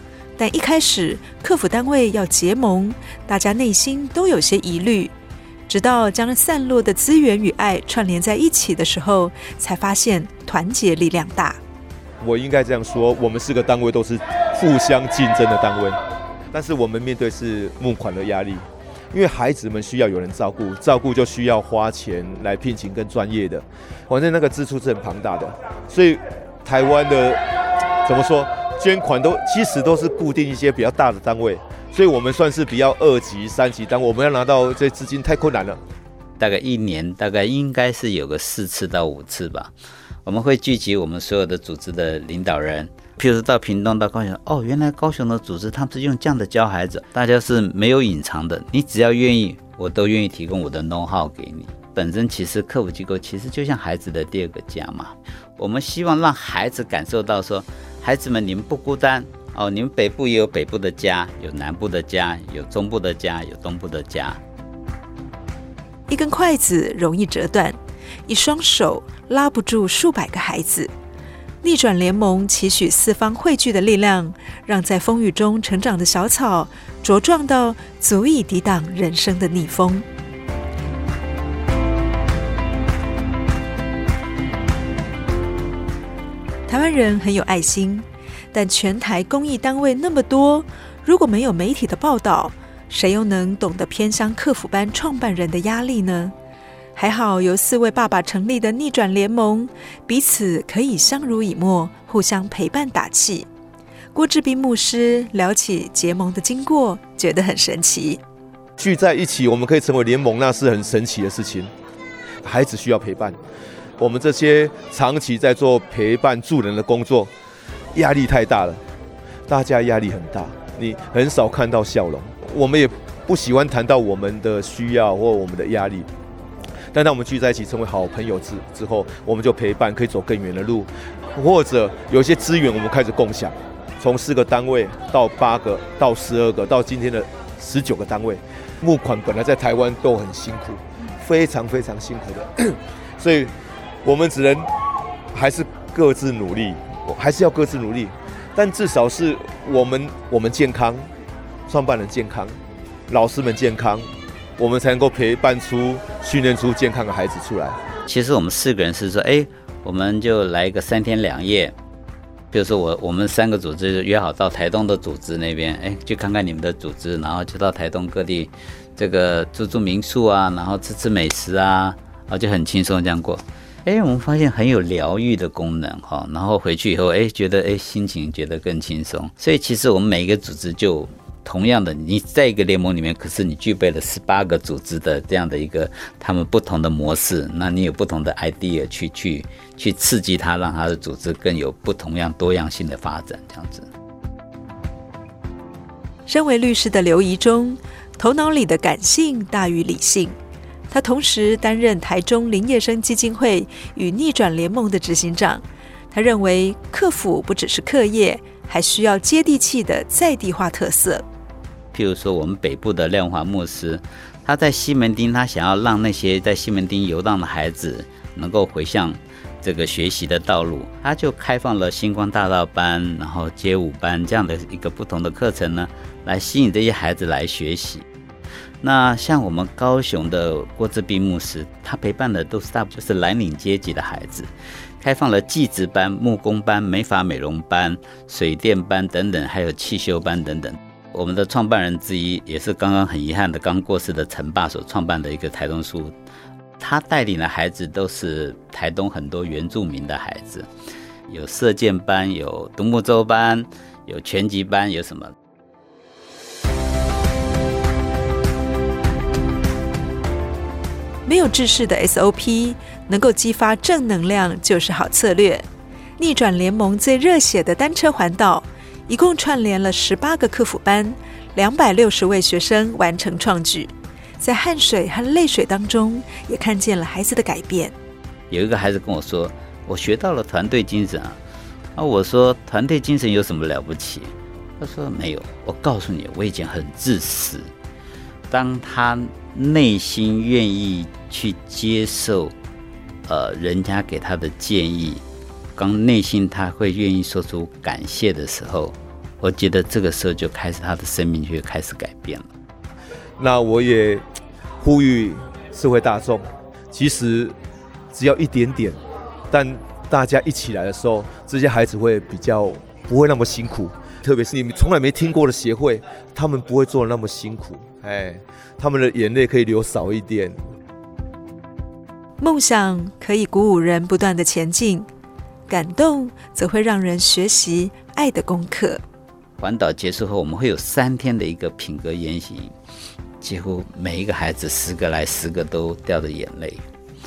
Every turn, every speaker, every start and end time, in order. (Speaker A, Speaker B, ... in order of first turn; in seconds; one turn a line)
Speaker A: 0.4-5.1
Speaker A: 5.7-11.6
Speaker B: 12.2-16.0
Speaker B: 16.5-27.4
Speaker B: 28.1-35.8
Speaker C: 36.4-39.7
Speaker C: 40.2-64.4
Speaker A: 66.1-70.9
Speaker A: 71.6-80.0
Speaker A: 86.7-96.3
Speaker A: 97.0-103.5
Speaker A: 104.1-108.2
Speaker B: 108.8-111.7
Speaker B: 112.4-113.4
Speaker B: 114.0-117.3
Speaker B: 117.9-118.8
Speaker B: 119.5-126.1
Speaker B: 126.9-143.5
Speaker B: 144.1-144.7
Speaker B: 145.3-151.1
Speaker B: 151.7-152.6
Speaker B: 153.1-157.8
Speaker C: 158.1-161.7
Speaker C: 162.5-193.9
Speaker A: 196.3-200.3
Speaker A: 200.9-211.2
Speaker C: 211.9-228.1
Speaker C: 228.8-246.2
Speaker C: 246.8-250.7
Speaker C: 251.3-255.3
Speaker A: 261.2-265.6
Speaker A: 266.2-277.9
Speaker C: 278.5-281.4
Speaker C: 282.0-287.7
Speaker C: 288.5-292.5
Speaker C: 293.3-295.2
Speaker C: 295.8-302.5
Speaker B: 303.4-304.2
Speaker B: 304.8-307.6
Speaker B: 308.1-309.0
Speaker B: 309.5-320.6
Speaker A: 322.4-325.1
Speaker A: 325.7-329.0
Speaker C: 329.6-332.7
Speaker C: 333.4-336.8